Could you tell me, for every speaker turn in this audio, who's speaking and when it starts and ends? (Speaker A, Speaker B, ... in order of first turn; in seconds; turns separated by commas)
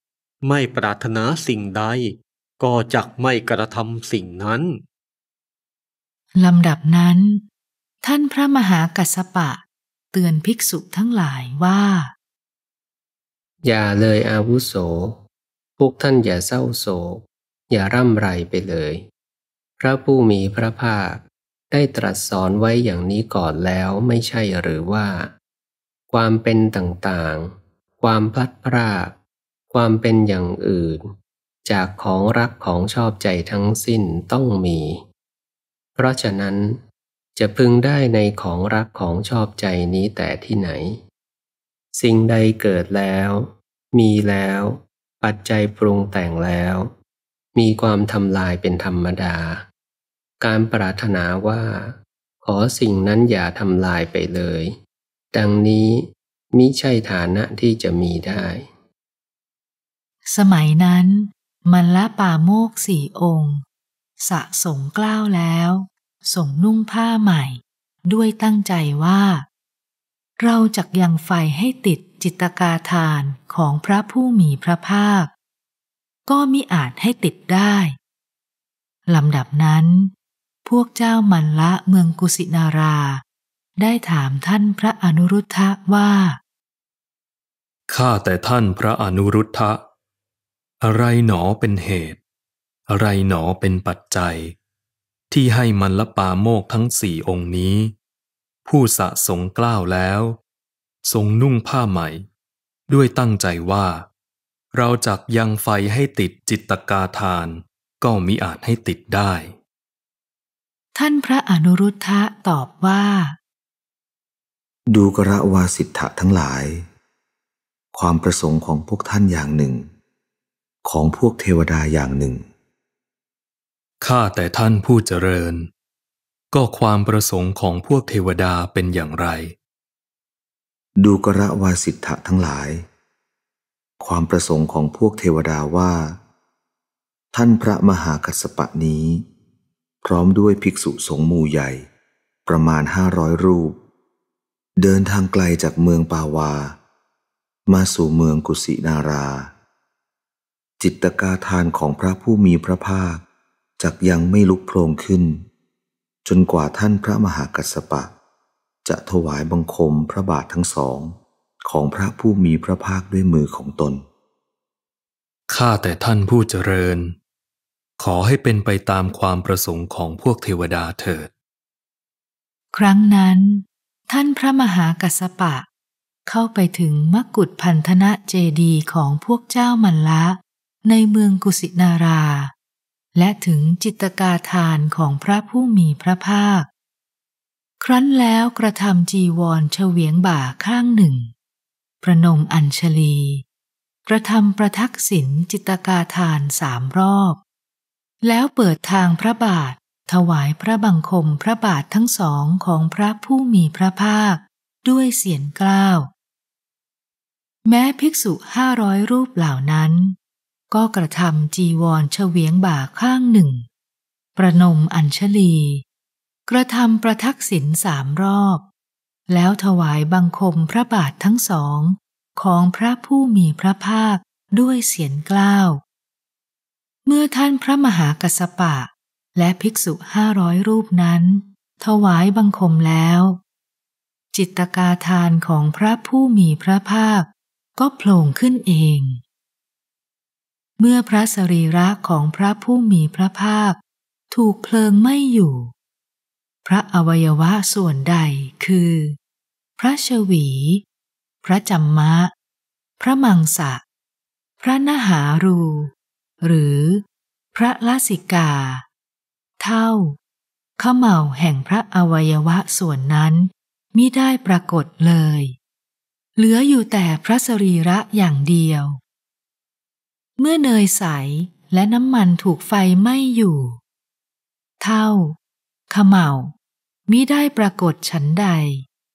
Speaker A: 0.4-4.7, Speaker B: 6.3-7.4, Speaker B: 8.0-9.6, Speaker B: 10.1-12.1, Speaker C: 13.6-15.2, Speaker C: 15.8-19.0, Speaker C: 19.8-25.3, Speaker C: 26.1-29.2, Speaker C: 29.7-31.0, Speaker C: 31.7-35.0, Speaker C: 36.0-36.8, Speaker C: 37.4-41.0, Speaker C: 41.9-46.9, Speaker C: 47.5-49.6, Speaker C: 50.4-54.8, Speaker C: 55.3-58.7, Speaker B: 60.3-63.6, Speaker B: 64.2-69.5, Speaker B: 70.4-75.3, Speaker B: 76.3-78.0, Speaker B: 79.1-80.1, Speaker B: 80.6-83.2, Speaker B: 83.8-86.4, Speaker D: 87.9-89.8, Speaker D: 90.8-92.2, Speaker D: 92.9-94.5, Speaker D: 95.3-97.9, Speaker D: 98.6-100.4, Speaker D: 101.0-102.2, Speaker D: 102.9-104.0, Speaker D: 104.7-109.5, Speaker B: 110.9-113.4, Speaker E: 114.9-116.9, Speaker E: 117.9-119.9, Speaker E: 120.8-122.5, Speaker D: 124.0-125.7, Speaker D: 126.5-129.5, Speaker E: 131.0-132.8, Speaker E: 134.0-136.2, Speaker E: 137.3-139.2, Speaker E: 140.0-141.9, Speaker E: 142.4-143.8, Speaker E: 144.8-146.8, Speaker E: 147.7-149.5, Speaker E: 150.8-153.2, Speaker E: 153.8-155.4, Speaker E: 156.2-158.1, Speaker E: 158.8-164.0, Speaker D: 165.5-167.1, Speaker D: 168.0-171.3, Speaker B: 172.7-175.7, Speaker B: 176.2-182.5, Speaker B: 183.2-186.7, Speaker B: 187.8-191.3, Speaker B: 192.0-193.4, Speaker B: 194.1-197.4, Speaker B: 198.2-206.1, Speaker B: 207.6-210.2, Speaker B: 210.7-213.7, Speaker B: 214.3-215.8, Speaker B: 216.5-218.6, Speaker B: 219.3-225.8, Speaker B: 227.1-233.4, Speaker B: 234.3-239.2, Speaker B: 240.8-243.8, Speaker B: 244.3-245.7, Speaker B: 246.6-249.2, Speaker B: 249.8-250.8, Speaker B: 251.4-252.3, Speaker B: 253.0-253.8, Speaker B: 254.6-258.8, Speaker B: 259.6-260.2, Speaker B: 260.8-265.6, Speaker B: 266.4-269.0, Speaker B: 270.4-273.8, Speaker B: 274.8-275.4, Speaker B: 275.9-276.5, Speaker B: 277.1-278.9